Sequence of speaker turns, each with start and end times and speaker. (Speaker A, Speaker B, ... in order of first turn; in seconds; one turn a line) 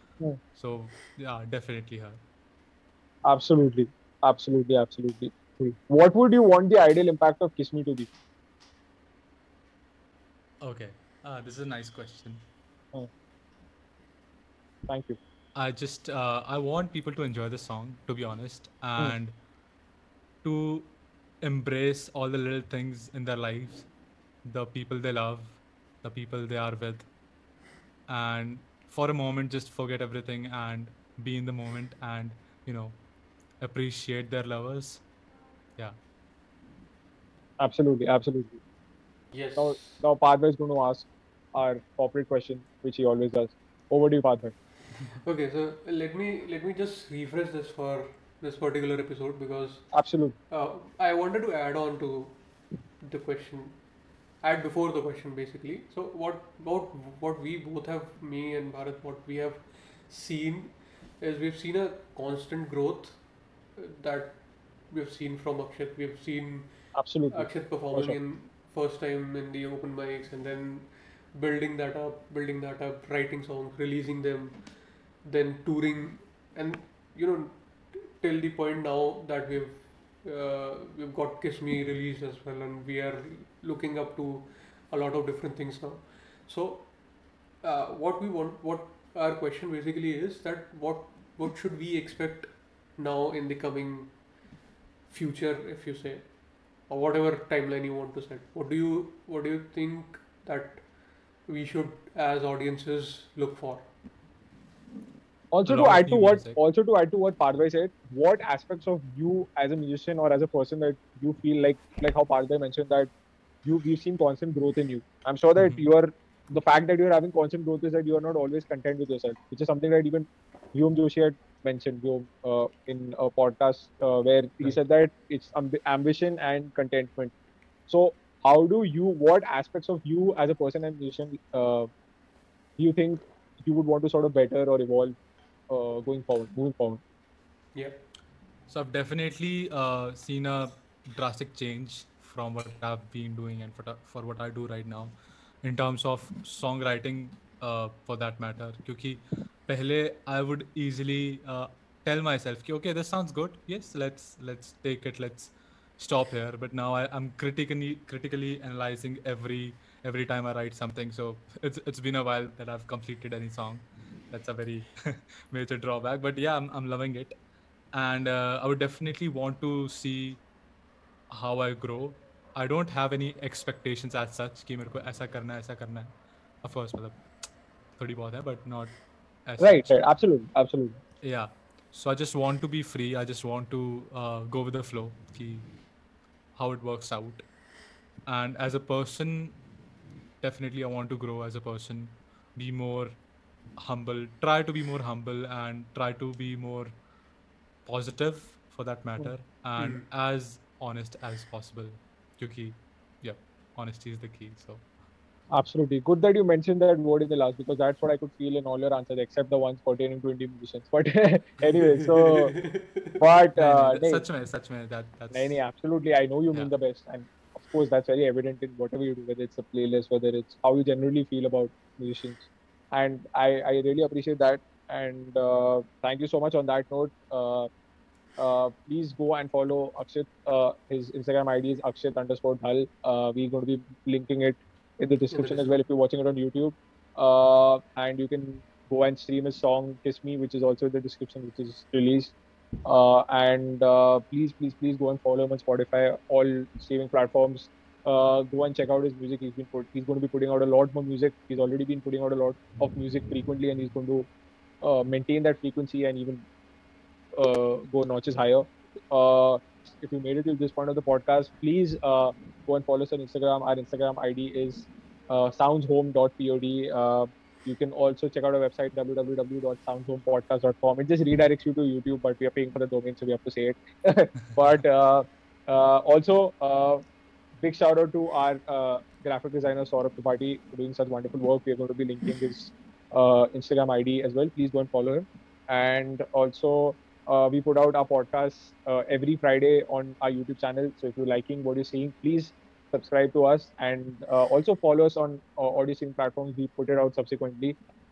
Speaker A: 0.5-2.2
Speaker B: 3.2-8.1
Speaker A: 10.6-12.4
Speaker B: 14.9-15.2
Speaker A: 15.5-19.3
Speaker A: 20.4-20.9
Speaker A: 21.4-23.9
Speaker A: 24.4-27.1
Speaker A: 28.1-33.0
Speaker A: 33.6-35.0
Speaker B: 37.6-38.6
Speaker C: 39.3-40.0
Speaker B: 39.6-44.5
Speaker C: 45.2-94.3
Speaker B: 49.9-50.4
Speaker B: 66.9-68.2
Speaker C: 95.1-103.9
Speaker B: 105.5-113.1
Speaker A: 105.7-106.6
Speaker B: 113.6-127.3
Speaker A: 115.6-115.9
Speaker B: 127.9-131.9
Speaker B: 132.8-135.2
Speaker B: 135.7-137.0
Speaker C: 137.7-138.0
Speaker A: 138.7-167.3
Speaker A: 167.9-170.4
Speaker A: 171.3-176.1
Speaker A: 176.6-177.2
Speaker A: 178.0-180.0
Speaker B: 179.6-181.0
Speaker A: 181.2-185.7
Speaker A: 186.5-187.4
Speaker A: 188.2-189.6
Speaker A: 190.4-193.2
Speaker A: 193.8-196.9
Speaker A: 197.8-204.8
Speaker C: 199.8-200.0
Speaker B: 205.5-212.6
Speaker C: 212.1-213.1
Speaker B: 213.2-214.2
Speaker A: 213.6-215.6
Speaker B: 215.3-227.7
Speaker B: 228.4-254.3
Speaker C: 235.3-235.7
Speaker B: 254.8-256.4
Speaker B: 257.3-277.0
Speaker B: 277.6-297.8